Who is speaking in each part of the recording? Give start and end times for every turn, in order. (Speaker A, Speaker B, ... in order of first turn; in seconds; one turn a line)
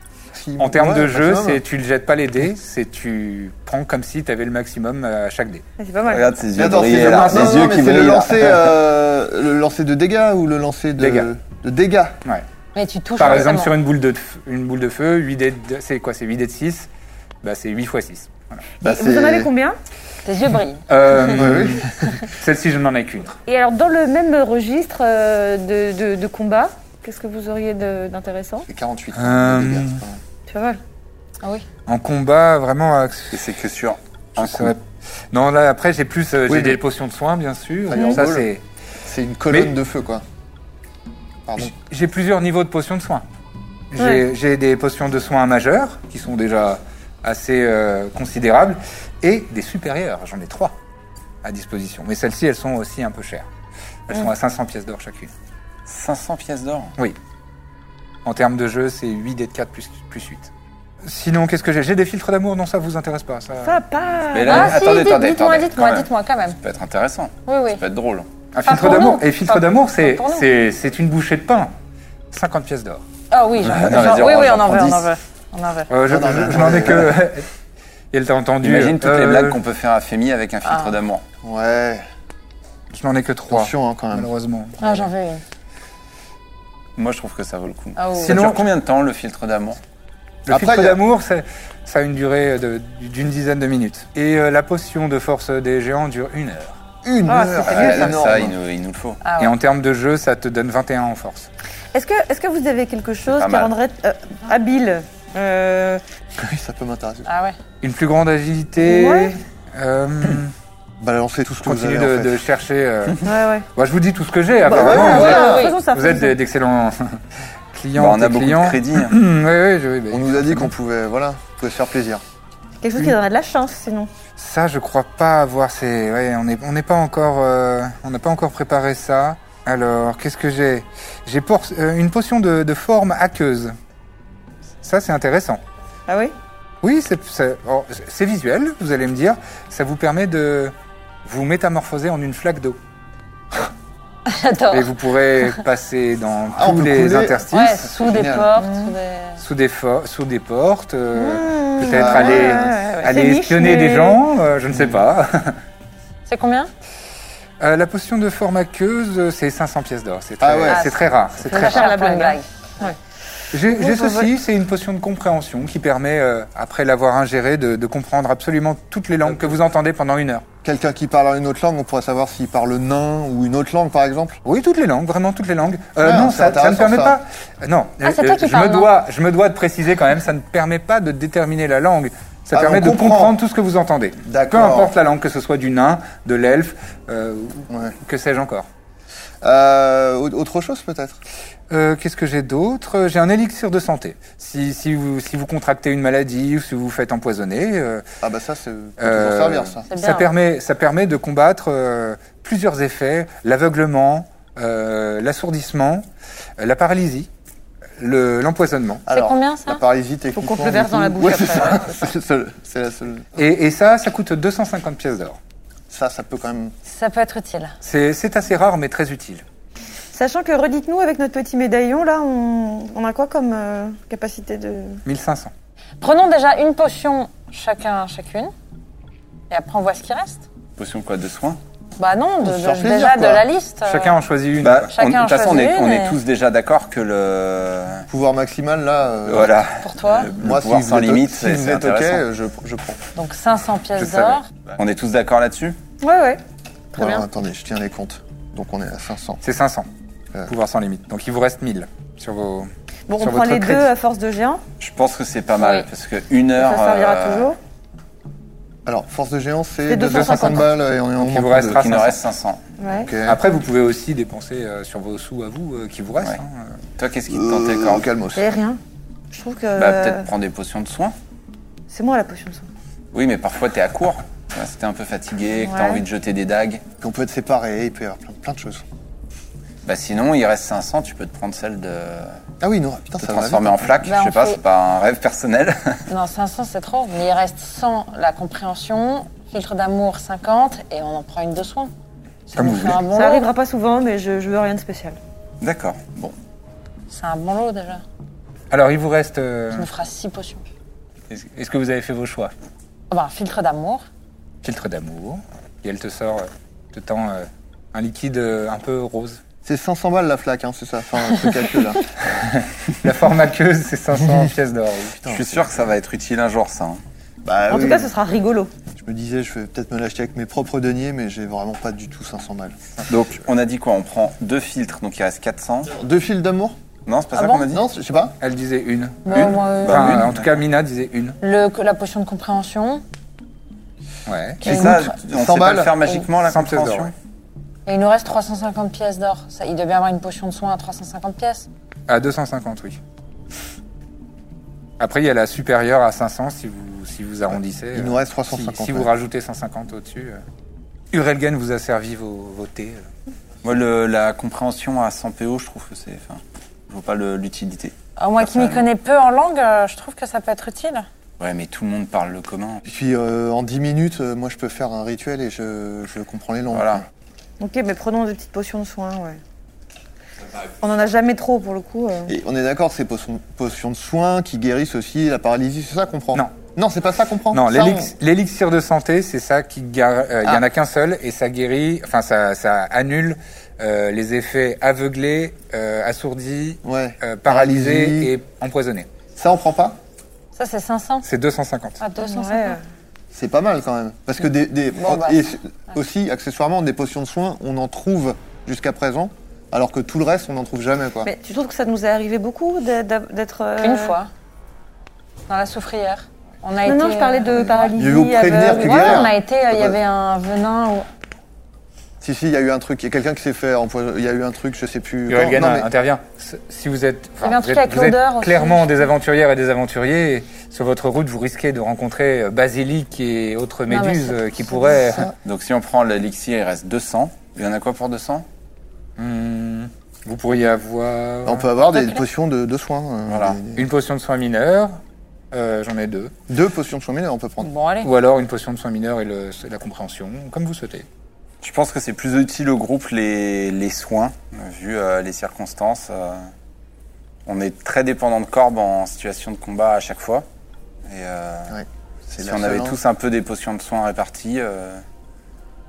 Speaker A: 0.3-1.6
Speaker B: 0.6-5.6
Speaker C: 5.8-6.3
Speaker D: 6.1-8.7
Speaker A: 6.5-12.2
Speaker B: 7.0-7.7
Speaker B: 11.0-11.3
Speaker E: 12.7-13.7
Speaker B: 13.2-16.9
Speaker B: 17.4-18.7
Speaker A: 18.8-19.5
Speaker C: 18.8-19.8
Speaker E: 20.2-21.3
Speaker B: 20.9-23.4
Speaker A: 21.3-22.1
Speaker C: 23.4-28.7
Speaker A: 28.7-30.2
Speaker B: 29.1-30.0
Speaker C: 30.5-30.8
Speaker B: 31.9-33.4
Speaker D: 33.3-34.7
Speaker B: 34.4-38.6
Speaker A: 36.5-36.8
Speaker A: 37.9-38.5
Speaker C: 37.9-38.2
Speaker A: 39.0-40.2
Speaker A: 41.5-41.7
Speaker B: 41.6-43.2
Speaker B: 43.9-50.7
Speaker C: 44.0-44.2
Speaker B: 51.4-53.5
Speaker B: 54.1-55.3
Speaker D: 55.9-56.9
Speaker B: 58.2-60.5
Speaker B: 61.0-63.8
Speaker C: 63.6-64.9
Speaker D: 64.3-68.3
Speaker E: 64.5-66.6
Speaker E: 67.5-67.8
Speaker B: 68.5-71.7
Speaker E: 68.6-70.5
Speaker B: 72.3-73.0
Speaker E: 73.3-75.9
Speaker D: 73.6-75.1
Speaker B: 75.9-77.5
Speaker A: 76.1-77.2
Speaker B: 78.1-79.6
Speaker D: 78.6-81.2
Speaker E: 80.6-80.9
Speaker A: 81.4-82.0
Speaker B: 82.9-85.1
Speaker A: 83.5-84.3
Speaker E: 84.8-85.4
Speaker D: 87.0-89.8
Speaker E: 88.0-88.4
Speaker B: 88.2-88.7
Speaker B: 90.5-96.8
Speaker A: 90.5-91.0
Speaker A: 97.0-98.5
Speaker C: 97.2-98.2
Speaker D: 97.6-99.2
Speaker E: 99.2-99.5
Speaker B: 99.4-101.5
Speaker C: 101.9-106.0
Speaker D: 103.3-103.7
Speaker A: 106.4-107.3
Speaker E: 107.2-107.5
Speaker B: 107.8-110.5
Speaker C: 108.8-109.3
Speaker A: 111.0-112.4
Speaker B: 111.6-117.2
Speaker C: 113.2-113.7
Speaker A: 114.7-115.7
Speaker C: 114.7-116.4
Speaker E: 115.2-115.7
Speaker B: 117.7-120.7
Speaker D: 118.0-119.2
Speaker A: 120.1-122.2
Speaker C: 122.8-124.1
Speaker B: 124.3-133.7
Speaker B: 134.8-135.6
Speaker C: 136.1-136.3
Speaker B: 136.8-140.7
Speaker B: 141.2-142.8
Speaker E: 144.3-145.6
Speaker B: 144.7-148.0
Speaker A: 146.5-148.5
Speaker E: 147.5-149.4
Speaker C: 148.6-148.9
Speaker B: 149.4-155.6
Speaker C: 151.1-154.2
Speaker A: 151.8-152.8
Speaker E: 156.2-156.7
Speaker B: 157.6-161.9
Speaker A: 160.4-160.9
Speaker E: 160.7-162.4
Speaker C: 161.5-163.0
Speaker B: 163.5-170.4
Speaker C: 163.7-164.3
Speaker A: 170.6-174.4
Speaker B: 174.4-188.7
Speaker A: 176.0-177.2
Speaker E: 178.0-178.9
Speaker A: 182.5-183.3
Speaker A: 184.2-184.9
Speaker A: 187.7-187.9
Speaker A: 189.4-191.2
Speaker B: 191.7-198.0
Speaker A: 198.2-199.8
Speaker B: 199.0-206.1
Speaker E: 199.9-200.3
Speaker B: 206.6-207.3
Speaker B: 208.0-209.0
Speaker A: 209.1-213.3
Speaker E: 209.1-209.8
Speaker C: 210.3-212.0
Speaker B: 213.3-215.4
Speaker A: 215.9-216.7
Speaker E: 216.8-217.7
Speaker B: 217.8-219.4
Speaker C: 220.1-225.0
Speaker B: 225.0-225.5
Speaker E: 226.0-228.5
Speaker E: 229.5-230.4
Speaker D: 230.8-231.6
Speaker E: 232.0-234.2
Speaker A: 232.4-233.4
Speaker B: 233.8-234.9
Speaker D: 234.6-238.1
Speaker E: 234.9-236.2
Speaker A: 238.1-239.7
Speaker D: 239.2-242.2
Speaker E: 239.8-240.3
Speaker A: 240.4-243.0
Speaker E: 243.1-244.5
Speaker B: 243.9-244.4
Speaker D: 244.8-245.8
Speaker C: 246.0-246.4
Speaker C: 246.9-247.2
Speaker A: 246.9-249.4
Speaker B: 249.4-249.9
Speaker B: 250.5-253.9
Speaker C: 253.1-254.6
Speaker D: 254.8-257.6
Speaker C: 256.6-257.6
Speaker A: 258.9-261.9
Speaker C: 259.9-260.6
Speaker B: 260.0-260.6
Speaker B: 261.2-262.2
Speaker D: 261.7-262.6
Speaker C: 262.8-263.1
Speaker A: 263.0-263.4
Speaker B: 263.2-266.8
Speaker D: 267.0-268.1
Speaker A: 267.3-268.5
Speaker C: 268.4-268.8
Speaker C: 269.3-270.3
Speaker D: 269.8-271.1
Speaker C: 271.9-272.7
Speaker D: 273.1-276.8
Speaker C: 275.6-276.0
Speaker A: 277.0-278.8
Speaker D: 279.8-282.4
Speaker A: 282.6-283.9
Speaker D: 283.2-286.1
Speaker E: 284.0-284.6
Speaker E: 286.1-291.9
Speaker E: 292.5-293.5
Speaker B: 292.6-293.1
Speaker C: 293.1-295.2
Speaker D: 295.6-296.3
Speaker E: 297.1-298.0
Speaker B: 298.7-299.9
Speaker E: 299.7-300.6
Speaker B: 301.3-302.5
Speaker E: 303.1-304.1
Speaker B: 304.6-309.4
Speaker A: 309.6-312.1
Speaker B: 312.3-315.2
Speaker A: 315.2-315.7
Speaker D: 315.3-317.0
Speaker A: 317.4-318.1
Speaker C: 317.7-318.7
Speaker A: 318.9-322.8
Speaker D: 323.1-325.9
Speaker A: 325.9-326.8
Speaker D: 327.1-327.8
Speaker E: 327.3-327.6
Speaker A: 327.7-328.4
Speaker B: 328.4-331.4
Speaker E: 329.2-330.2
Speaker D: 329.3-330.5
Speaker E: 331.4-333.0
Speaker B: 334.2-334.9
Speaker E: 334.6-335.1
Speaker D: 334.6-337.1
Speaker A: 334.7-335.9
Speaker B: 336.4-337.1
Speaker E: 337.9-341.7
Speaker B: 342.1-343.0
Speaker B: 345.0-350.4
Speaker A: 347.5-349.1
Speaker B: 351.1-353.1
Speaker D: 353.6-358.9
Speaker E: 358.2-361.1
Speaker D: 361.4-362.8
Speaker A: 362.9-367.1
Speaker D: 366.7-367.0
Speaker C: 367.6-369.4
Speaker C: 370.8-372.3
Speaker A: 372.3-378.1
Speaker B: 377.5-389.1
Speaker A: 386.8-388.3
Speaker A: 389.3-390.0
Speaker E: 390.5-391.3
Speaker B: 391.2-392.0
Speaker E: 392.0-392.8
Speaker C: 392.2-392.8
Speaker A: 393.3-401.3
Speaker E: 394.9-395.4
Speaker C: 401.2-404.1
Speaker E: 403.8-404.3
Speaker E: 405.5-411.1
Speaker C: 406.8-409.3
Speaker A: 407.9-410.0
Speaker A: 412.2-415.9
Speaker B: 415.3-425.3
Speaker E: 417.4-419.1
Speaker E: 423.9-425.0
Speaker D: 425.4-428.4
Speaker B: 429.2-431.7
Speaker A: 431.4-433.9
Speaker D: 433.3-433.6
Speaker B: 433.8-435.0
Speaker B: 435.5-436.3
Speaker A: 436.5-437.7
Speaker E: 437.6-438.1
Speaker B: 438.0-441.1
Speaker D: 441.6-446.5
Speaker D: 447.4-450.4
Speaker D: 451.1-451.8
Speaker A: 451.7-453.0
Speaker D: 452.4-455.0